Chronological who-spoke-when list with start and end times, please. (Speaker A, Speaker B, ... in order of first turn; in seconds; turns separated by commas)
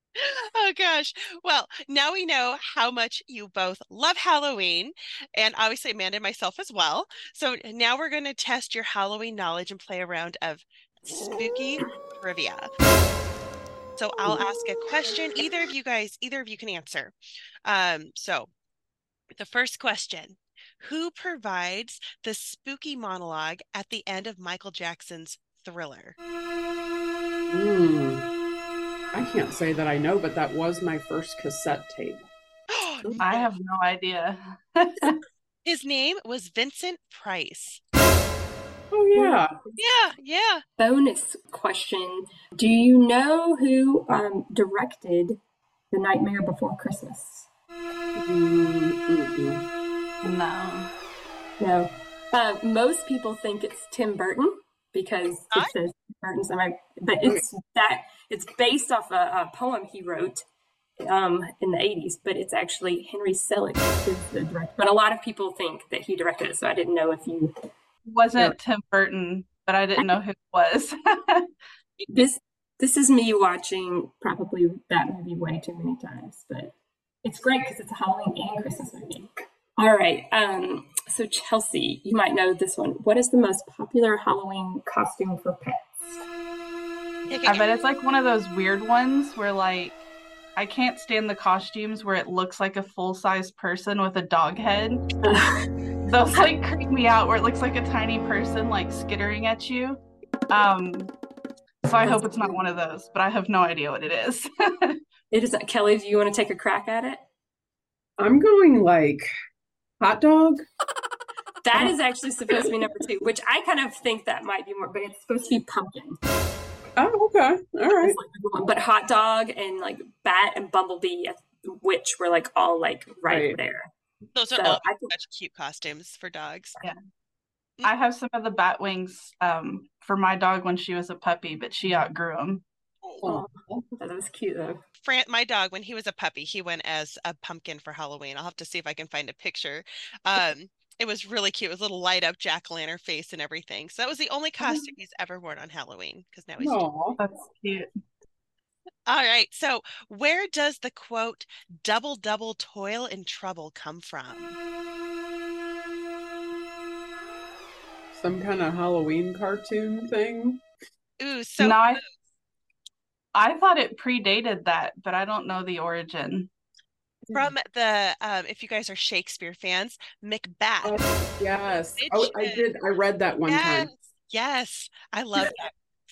Speaker A: 0.2-12.7, Speaker A: 14.0-18.5, Speaker A: 19.4-26.1, Speaker B: 27.5-28.2, Speaker B: 29.1-32.2, Speaker A: 32.7-33.5, Speaker C: 33.2-35.2, Speaker A: 35.6-37.8, Speaker B: 38.9-39.5, Speaker D: 39.1-39.8, Speaker A: 39.8-40.6, Speaker D: 40.8-45.4, Speaker D: 45.9-47.5, Speaker B: 48.2-49.6, Speaker C: 50.2-50.9, Speaker D: 51.6-60.5, Speaker D: 61.0-67.5, Speaker C: 68.0-71.5, Speaker A: 72.0-72.3, Speaker D: 72.1-86.2, Speaker A: 87.3-87.8, Speaker C: 87.5-90.0, Speaker C: 90.6-95.1, Speaker D: 95.2-95.5, Speaker C: 96.1-101.1, Speaker C: 101.8-105.0, Speaker D: 102.0-102.6, Speaker D: 105.3-107.2, Speaker B: 108.2-109.3, Speaker B: 110.0-110.6, Speaker D: 111.6-116.2, Speaker B: 117.0-118.2, Speaker D: 117.9-123.9, Speaker B: 123.3-123.6, Speaker A: 124.3-126.8, Speaker D: 124.5-125.1, Speaker C: 127.8-132.6, Speaker B: 133.2-133.8, Speaker D: 133.2-134.8, Speaker A: 135.0-146.8, Speaker D: 144.6-144.9, Speaker B: 146.6-147.2, Speaker C: 147.2-147.9, Speaker A: 149.1-154.6, Speaker B: 158.1-160.6, Speaker A: 161.2-162.1, Speaker C: 161.6-162.0, Speaker C: 163.3-166.5, Speaker A: 167.3-171.0, Speaker B: 170.8-173.9, Speaker A: 172.0-172.7, Speaker A: 173.5-175.7